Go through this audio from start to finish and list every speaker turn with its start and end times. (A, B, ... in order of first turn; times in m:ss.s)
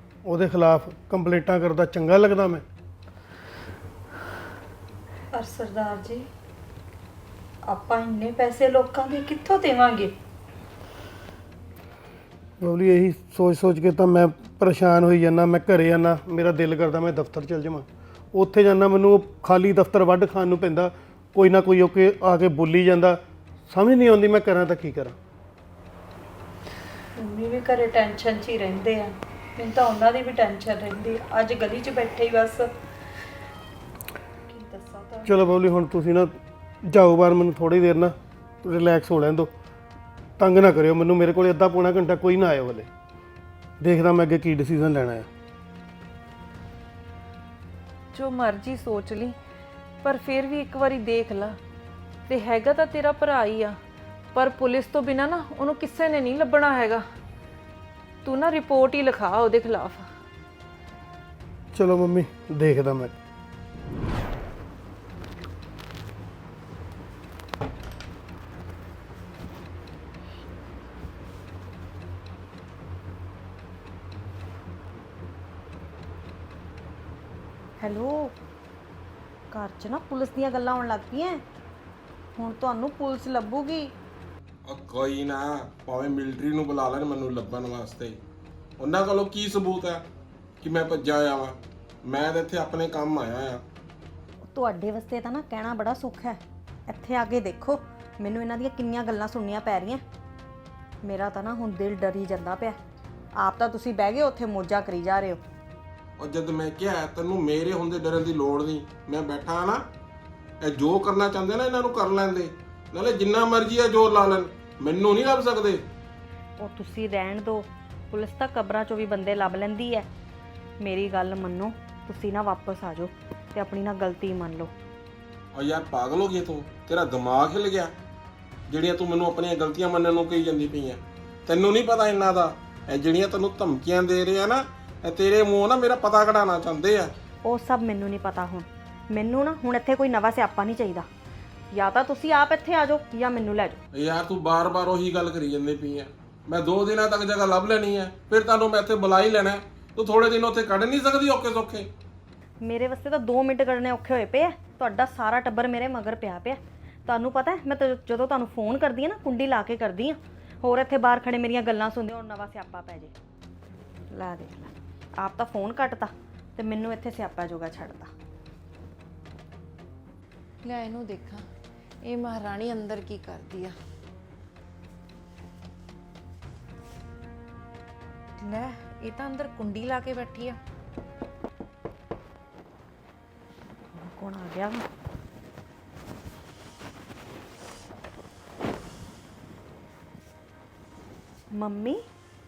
0:00.2-0:02.6 A
0:05.3-0:06.3 B
0:07.6-0:10.1 B
0:12.6-0:25.2 A
0:27.2-0:32.7 B
0:34.5-0:35.3 B
0:35.2-0:39.5 A
0:40.4-0:42.9 A
0:43.8-0:45.3 A
0:48.1-0:49.3 C
0:50.0-0:51.6 C
0:52.3-0:53.8 C
0:54.3-0:57.0 C
0:58.2-1:00.0 C
1:01.7-1:03.1 A
1:17.8-1:18.3 D
1:19.5-1:21.4 D
1:22.4-1:23.9 D
1:24.7-1:28.2 E
1:28.8-1:30.0 E
1:30.6-1:33.6 E
1:34.5-1:40.0 D
1:41.0-1:42.8 D
1:43.4-1:45.4 D
1:46.2-1:49.8 E
1:50.6-1:55.8 E
1:56.6-2:00.1 D
2:00.8-2:04.7 D
2:05.5-2:07.9 E
2:08.7-2:17.1 E
2:17.4-2:21.0 D
2:21.7-2:23.8 D
2:23.9-2:31.9 E
2:32.6-2:43.1 D
2:44.1-2:48.1 D
2:50.6-2:51.4 C
2:52.0-2:53.7 C
2:58.4-3:00.6 C
3:04.0-3:04.8 D
3:11.5-3:12.0 D